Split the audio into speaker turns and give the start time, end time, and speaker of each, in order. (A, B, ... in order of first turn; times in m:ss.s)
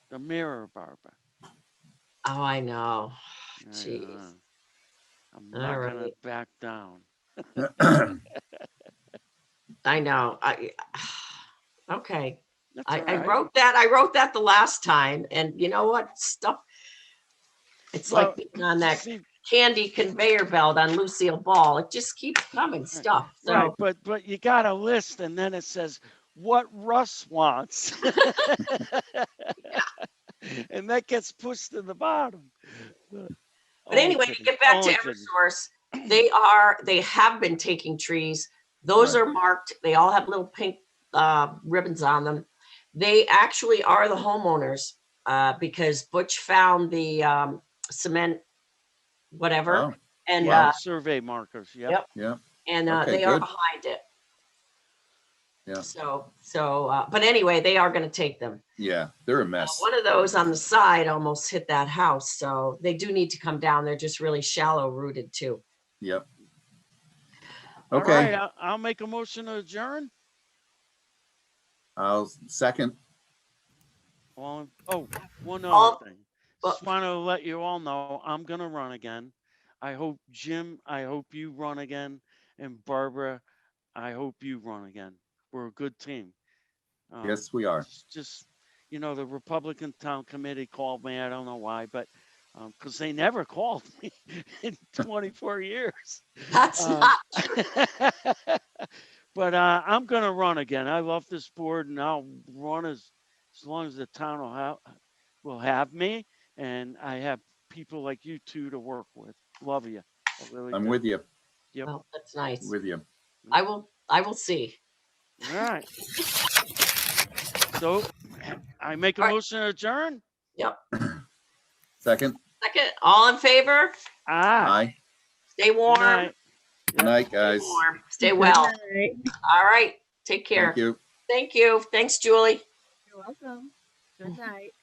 0:00.1-0:01.2 A
0:02.2-0:03.2 B
0:03.6-0:04.4 A
0:03.7-0:04.2 B
0:05.3-0:08.0 A
0:05.5-0:06.1 B
0:07.8-0:08.2 C
0:09.8-0:11.3 B
0:11.9-0:16.6 B
0:12.8-0:13.4 A
0:17.9-0:23.7 B
0:18.1-0:19.3 A
0:22.9-0:29.8 A
0:30.4-0:33.3 A
0:33.9-0:35.3 A
0:33.9-0:48.4 B
0:49.3-0:50.8 B
0:49.7-0:50.7 C
0:50.4-0:52.0 A
0:52.2-0:53.4 C
0:52.7-0:54.0 B
0:55.8-0:58.6 B
0:58.8-0:59.9 C
0:59.6-1:05.6 B
1:06.0-1:06.3 C
1:07.9-1:08.3 C
1:07.9-1:10.1 A
1:12.0-1:13.0 C
1:14.4-1:23.4 A
1:15.7-1:16.0 B
1:24.0-1:26.4 A
1:27.1-1:51.0 A
1:27.2-1:27.9 C
1:36.5-1:37.6 B
1:50.7-1:51.2 C
1:51.9-1:52.7 B
1:52.6-1:53.0 C
1:53.5-1:54.8 B
1:55.4-1:55.9 A
1:57.8-2:00.2 A
2:02.0-2:02.4 C
2:02.6-2:03.9 B
2:04.3-2:04.8 A
2:04.6-2:05.0 C
2:05.6-2:06.3 B
2:05.9-2:06.4 A
2:06.9-2:07.2 A
2:07.0-2:07.8 C
2:07.4-2:08.7 B
2:08.2-2:09.2 D
2:09.4-2:12.6 B
2:10.6-2:11.0 C
2:13.1-2:14.7 D